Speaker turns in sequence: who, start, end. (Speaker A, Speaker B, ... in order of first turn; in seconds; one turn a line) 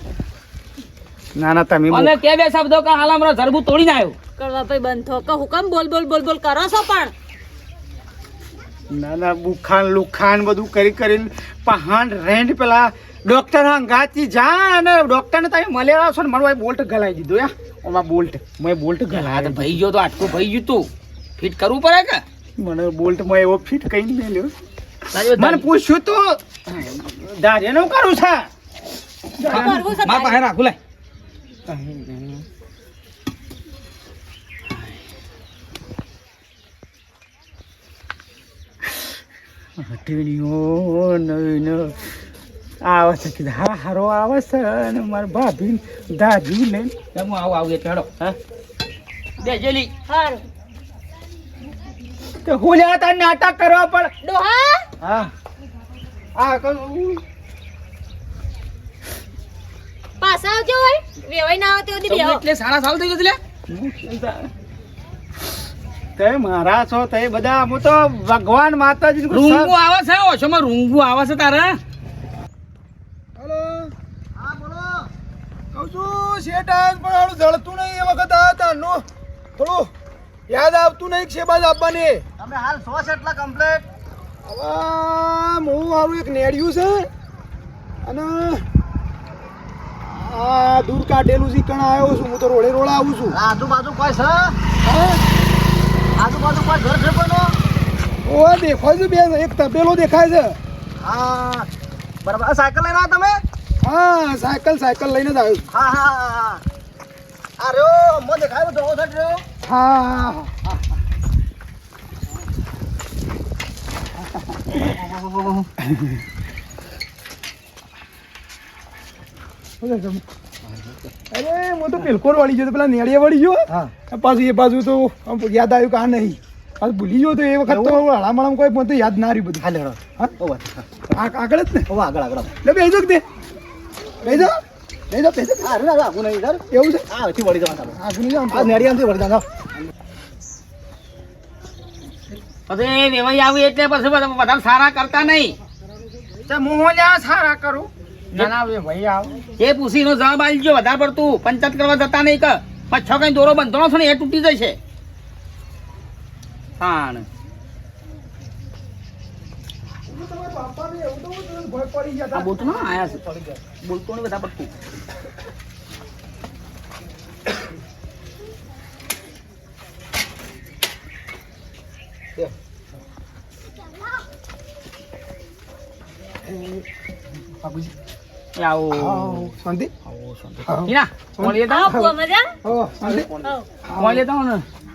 Speaker A: 1.4-2.2
Speaker B: 1.9-4.2
Speaker C: 4.4-7.1
Speaker A: 8.9-19.6
Speaker B: 19.1-22.2
Speaker A: 22.6-24.5
Speaker B: 25.1-25.7
Speaker A: 25.4-28.5
Speaker C: 29.4-30.4
Speaker B: 29.4-30.8
Speaker A: 31.7-32.4
Speaker A: 39.8-42.0
Speaker A: 42.8-46.9
Speaker B: 47.1-48.1
Speaker B: 49.4-49.9
Speaker C: 50.1-50.4
Speaker A: 52.4-54.1
Speaker C: 54.2-54.9
Speaker A: 55.0-55.3
Speaker A: 56.4-57.2
Speaker C: 60.2-62.4
Speaker B: 62.1-63.4
Speaker A: 63.7-64.3
Speaker B: 64.0-64.4
Speaker A: 66.2-69.7
Speaker B: 69.3-71.8
Speaker D: 73.4-73.9
Speaker E: 74.3-75.1
Speaker D: 75.7-79.0
Speaker D: 79.6-79.9
Speaker D: 80.5-82.2
Speaker E: 82.4-83.9
Speaker D: 84.5-87.1
Speaker D: 88.0-88.7
Speaker D: 90.0-93.4
Speaker E: 93.3-94.6
Speaker D: 94.8-95.2
Speaker E: 96.2-97.6
Speaker D: 98.2-100.6
Speaker E: 101.0-101.7
Speaker E: 102.2-103.4
Speaker D: 103.8-105.7
Speaker E: 105.7-106.6
Speaker E: 107.6-109.4
Speaker D: 109.7-110.8
Speaker E: 114.8-115.7
Speaker D: 119.8-120.2
Speaker E: 120.7-121.0
Speaker D: 121.3-129.7
Speaker E: 123.7-123.9
Speaker E: 127.7-128.0
Speaker E: 129.6-131.1
Speaker D: 131.1-131.9
Speaker E: 131.9-132.6
Speaker D: 132.6-133.2
Speaker D: 134.2-134.6
Speaker D: 135.1-135.7
Speaker E: 135.6-138.0
Speaker D: 136.7-137.1
Speaker D: 138.0-138.8
Speaker E: 138.5-139.5
Speaker B: 142.7-145.6
Speaker A: 146.5-149.4
Speaker B: 149.6-154.8
Speaker B: 156.8-157.3
Speaker D: 160.1-163.5
Speaker B: 162.3-163.2
Speaker B: 163.8-164.7
Speaker D: 176.5-176.8
Speaker D: 177.6-177.9
Speaker B: 178.6-179.5
Speaker D: 178.9-179.9
Speaker B: 180.1-182.1
Speaker D: 180.6-182.0
Speaker C: 181.6-182.6
Speaker D: 182.6-183.3
Speaker C: 183.4-183.7
Speaker D: 183.9-184.2
Speaker B: 183.9-184.6